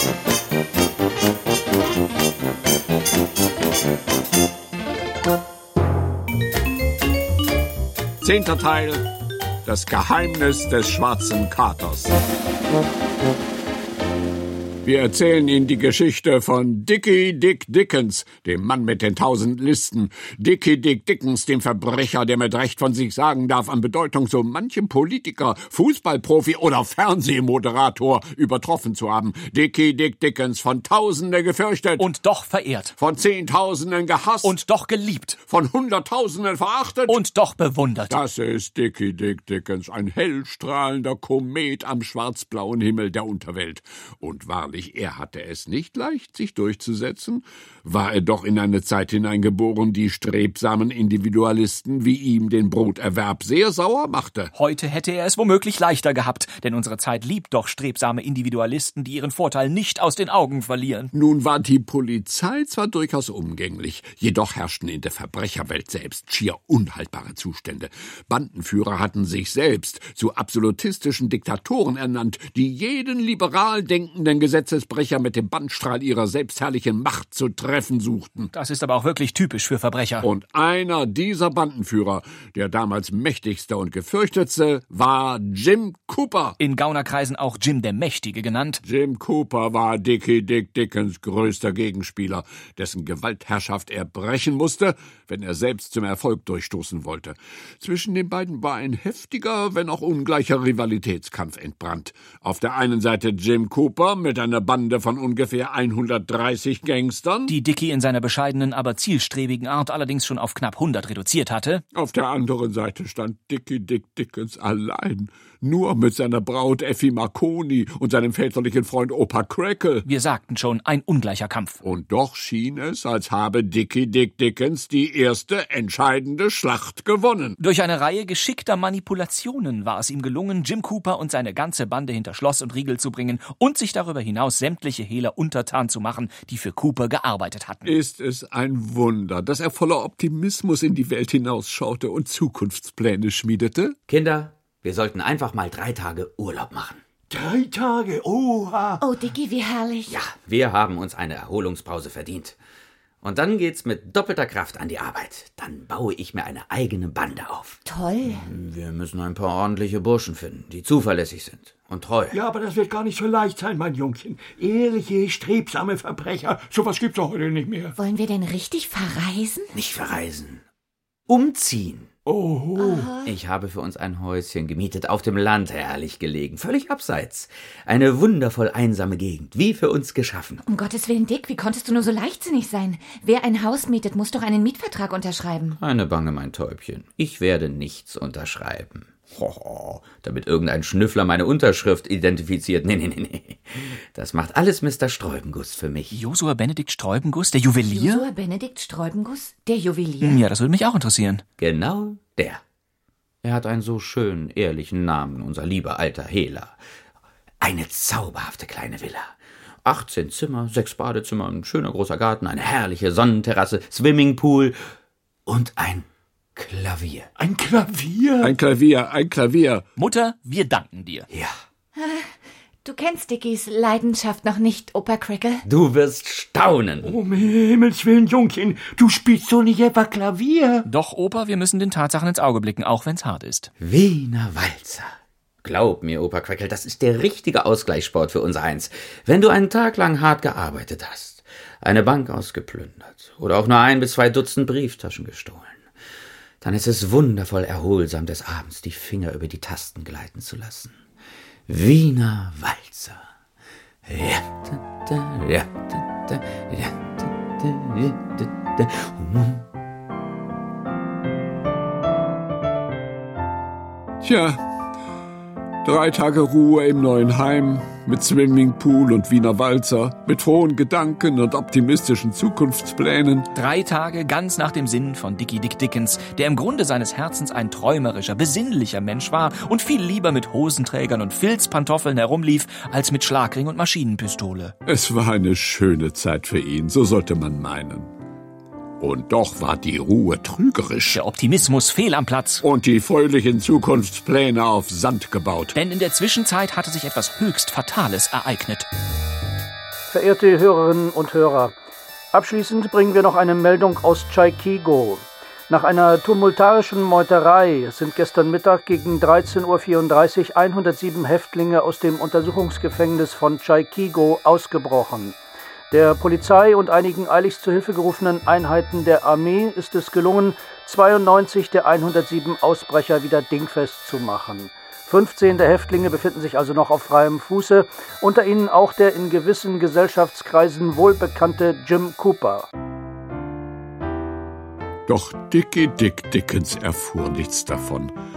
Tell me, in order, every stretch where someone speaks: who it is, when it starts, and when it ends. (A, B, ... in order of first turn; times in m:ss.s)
0:08.2-0:09.1 A
0:09.6-0:12.2 A
0:14.8-0:32.1 A
0:32.0-0:33.0 B
0:33.0-0:34.6 A
0:34.4-0:35.4 B
0:35.5-0:37.2 A
0:37.1-0:38.2 B
0:38.1-0:54.5 A
0:54.5-1:01.1 B
1:01.1-1:18.5 A
1:18.5-1:20.3 B
1:20.2-1:26.6 A
1:26.6-1:28.8 B
1:28.8-1:47.5 A
1:47.5-1:51.8 B
1:51.9-2:00.1 A
2:00.0-2:01.8 B
2:01.8-2:07.6 A
2:07.6-2:17.9 B
2:17.8-2:24.0 A
2:24.1-2:27.0 C
2:27.3-2:29.0 D
2:29.0-2:30.2 E
2:30.1-2:32.6 C
2:33.2-2:42.4 C
2:37.9-2:38.4 E
2:42.3-2:48.0 D
2:48.0-2:49.7 E
2:49.8-2:50.6 C
2:51.3-2:52.1 C
2:52.3-2:53.1 D
2:52.8-2:53.3 E
2:53.2-3:00.6 C
3:00.7-3:05.8 E
3:05.8-3:16.2 C
3:16.1-3:18.3 B
3:17.9-3:20.4 E
3:20.2-3:21.4 B
3:21.6-3:22.6 C
3:23.4-3:26.8 C
3:27.6-3:34.8 C
3:35.5-3:37.3 C
3:37.4-3:38.6 D
3:38.4-3:39.8 A
3:40.0-3:41.3 B
3:42.0-3:45.6 E
3:45.7-3:47.2 C
3:47.0-3:50.9 D
3:50.9-3:53.7 B
3:53.8-3:55.1 C
3:55.6-4:05.8 C
4:06.6-4:11.0 C
4:11.7-4:13.2 C
4:14.1-4:19.7 C
4:24.2-4:24.6 A
4:25.8-4:33.5 A
4:33.5-4:44.8 B
4:44.9-4:48.1 A
4:49.0-4:51.2 A
4:51.1-4:52.6 B
4:52.6-4:55.8 A
4:55.8-4:58.9 B
5:00.1-5:01.8 F
5:02.3-5:15.4 F
5:15.9-5:32.7 F
5:35.1-5:38.1 A